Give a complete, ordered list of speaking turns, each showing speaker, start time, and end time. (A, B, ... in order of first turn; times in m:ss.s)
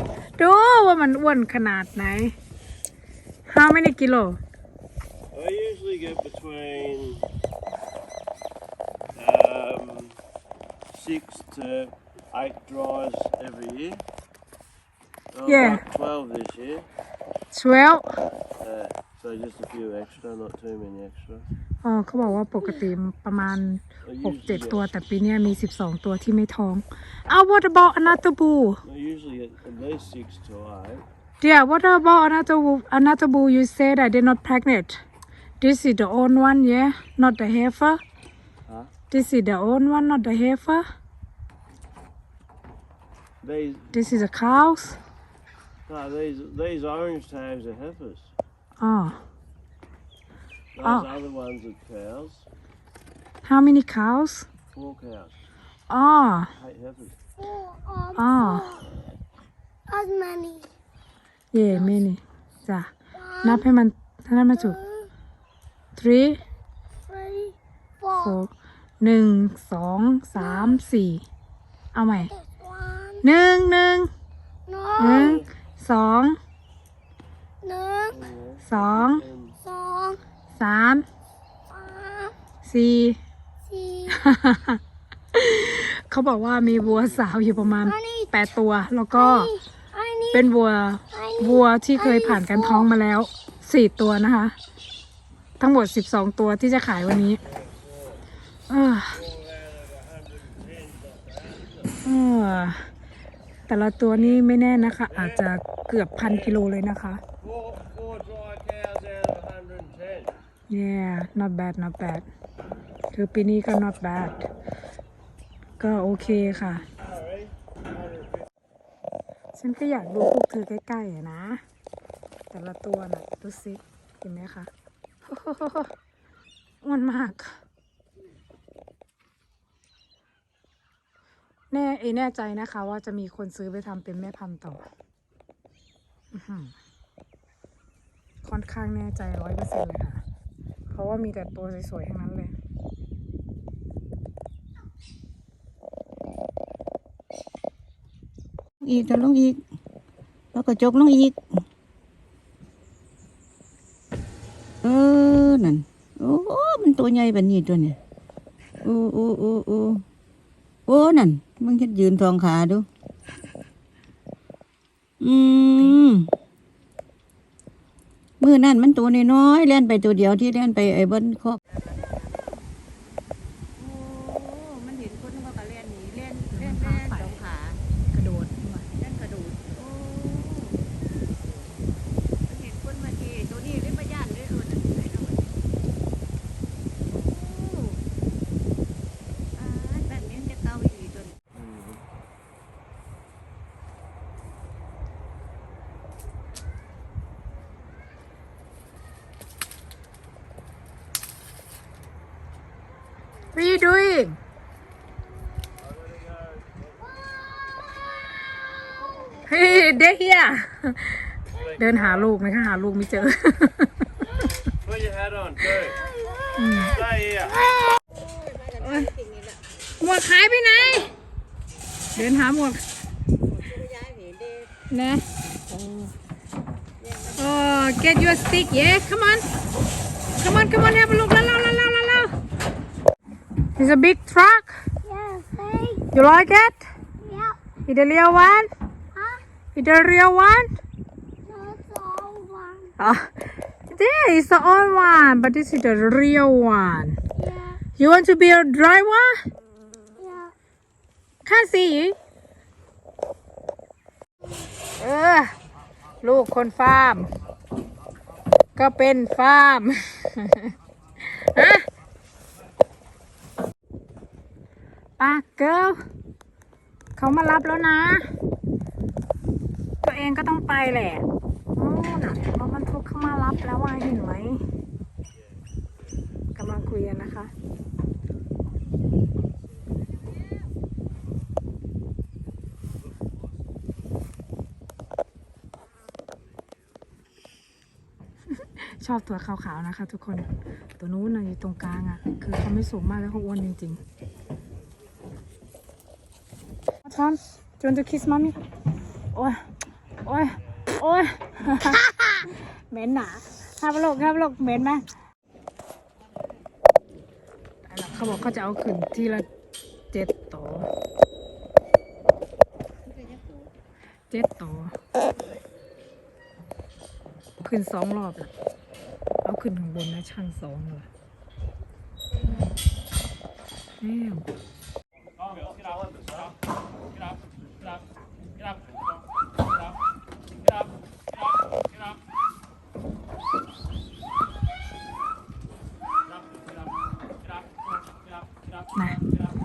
0:00.4-0:02.4 A
0:03.5-0:04.4 A
0:05.3-0:07.2 B
0:09.2-0:10.2 B
0:10.9-0:14.0 B
0:15.3-0:16.9 B
0:15.4-0:15.8 A
0:17.5-0:18.2 A
0:18.6-0:21.5 B
0:21.8-0:28.8 A
0:24.0-0:24.9 B
0:28.8-0:31.0 B
0:31.4-0:35.0 A
0:35.6-0:38.0 A
0:39.1-0:40.9 A
0:43.4-0:43.9 B
0:43.9-0:45.0 A
0:45.9-0:48.3 B
0:48.8-0:49.2 A
0:50.8-0:52.5 B
0:50.8-0:51.1 A
0:53.4-0:54.5 A
0:54.7-0:55.3 B
0:55.9-0:56.5 A
0:56.6-0:57.1 B
0:57.5-0:58.8 C
0:58.2-0:58.7 A
0:59.9-1:00.7 C
1:01.5-1:02.9 A
1:03.2-1:03.6 C
1:03.4-1:04.8 A
1:04.8-1:05.1 C
1:06.0-1:06.4 A
1:07.1-1:08.2 C
1:08.2-1:08.5 A
1:09.0-1:11.2 A
1:11.9-1:12.3 A
1:12.4-1:13.2 C
1:13.2-1:14.1 A
1:14.7-1:15.4 C
1:15.0-1:16.4 A
1:15.0-1:15.5 B
1:17.6-1:18.2 C
1:18.1-1:19.6 B
1:18.7-1:19.2 A
1:19.6-1:20.2 C
1:20.6-1:21.0 A
1:21.7-1:22.3 C
1:22.6-1:23.2 A
1:23.7-1:24.2 C
1:24.2-1:24.8 A
1:25.3-1:29.5 A
1:27.9-1:28.3 C
1:29.2-1:30.4 C
1:30.3-1:34.6 A
1:31.2-1:32.8 C
1:35.6-1:37.4 A
1:38.7-1:39.2 A
1:39.2-1:41.7 B
1:42.0-1:42.9 A
1:43.7-1:47.2 A
1:47.4-1:50.3 B
1:50.7-1:52.2 A
1:53.1-1:54.5 A
1:55.8-1:56.8 A
1:59.6-2:01.6 A
2:02.5-2:04.7 A
2:05.3-2:05.9 A
2:06.8-2:07.6 A
2:11.7-2:14.8 A
2:16.3-2:16.7 A
2:18.4-2:20.2 A
2:20.9-2:22.5 A
2:28.8-2:29.6 D
2:30.5-2:31.6 D
2:34.8-2:38.0 D
2:38.8-2:40.0 D
2:40.9-2:42.9 D
2:45.2-2:46.3 D
2:48.4-2:51.6 D
2:53.8-2:57.8 E
2:56.5-2:57.4 A
2:58.1-2:58.9 A
2:59.0-3:00.8 E
3:02.5-3:05.5 E
3:07.1-3:08.0 E
3:09.6-3:11.3 E
3:11.5-3:12.0 B
3:23.5-3:24.4 A
3:26.1-3:26.8 B
3:29.4-3:34.2 A
3:34.8-3:36.0 B
3:36.6-3:37.0 A
3:36.9-3:37.7 B
3:38.8-3:39.2 A
3:40.0-3:41.1 A
3:42.1-3:42.8 A
3:43.7-3:44.6 E
3:44.9-3:46.1 A
3:47.4-3:49.5 A
3:50.4-3:52.3 A
3:53.8-3:54.8 A
3:55.0-3:56.0 C
3:56.1-3:56.9 A
3:57.2-3:57.6 C
3:57.9-3:58.7 A
3:59.2-3:59.4 C
3:59.8-4:00.7 A
4:01.5-4:02.9 C
4:03.0-4:03.3 A
4:03.9-4:07.2 A
4:07.4-4:07.8 C
4:08.0-4:09.4 A
4:10.2-4:10.5 C
4:11.4-4:12.2 A
4:15.0-4:15.5 A
4:16.2-4:17.3 A
4:18.8-4:21.9 A
4:25.2-4:26.0 A
4:27.2-4:28.3 A
4:30.0-4:31.2 A
4:31.8-4:34.6 A
4:36.6-4:37.5 A
4:48.6-4:54.0 A
4:57.0-4:58.6 A
4:59.4-4:59.6 A
5:00.2-5:05.0 A
5:07.9-5:09.5 A
5:10.1-5:10.9 A
5:14.3-5:15.0 A
5:17.6-5:18.5 A
5:19.4-5:21.1 A
5:24.0-5:24.5 A